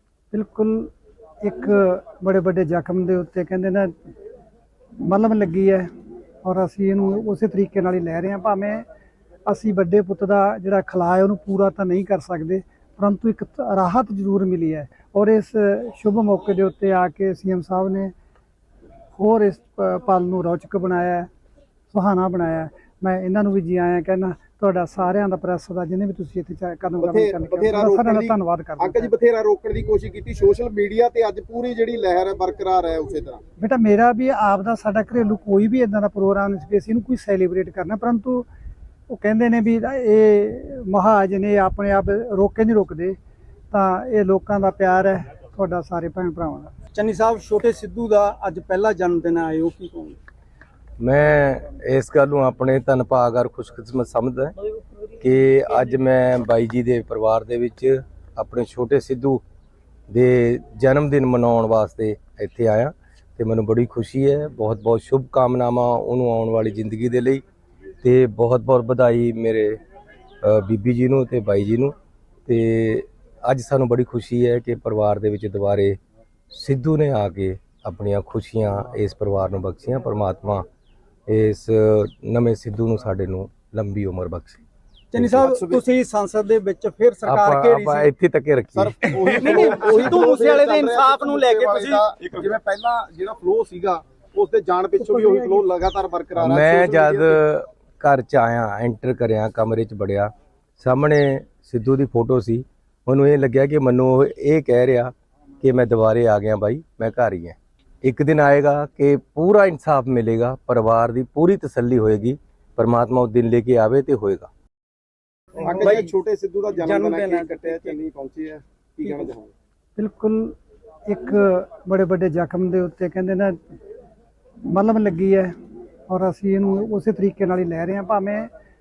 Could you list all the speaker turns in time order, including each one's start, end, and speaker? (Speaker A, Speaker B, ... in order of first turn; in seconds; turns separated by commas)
Speaker A: 0.3-3.9, Speaker A: 5.0-5.9, Speaker A: 6.4-8.8, Speaker A: 9.5-18.1, Speaker A: 19.2-21.3, Speaker A: 21.9-29.1, Speaker B: 27.0-33.4, Speaker A: 33.6-38.5, Speaker A: 39.1-43.2, Speaker A: 43.7-46.7, Speaker C: 46.9-50.2, Speaker D: 51.0-54.6, Speaker D: 55.2-59.4, Speaker D: 60.1-67.4, Speaker D: 68.0-69.8, Speaker D: 70.4-71.9, Speaker D: 72.5-76.0, Speaker D: 76.5-80.7, Speaker D: 81.3-84.6, Speaker C: 85.1-88.1, Speaker D: 85.2-85.5, Speaker B: 85.4-85.8, Speaker D: 87.2-89.0, Speaker B: 88.8-97.4, Speaker C: 89.3-92.0, Speaker D: 96.4-114.5, Speaker B: 115.6-119.5, Speaker C: 115.8-116.1, Speaker C: 116.7-118.0, Speaker A: 120.0-120.6, Speaker A: 121.1-123.6, Speaker A: 124.6-125.5, Speaker A: 126.1-128.5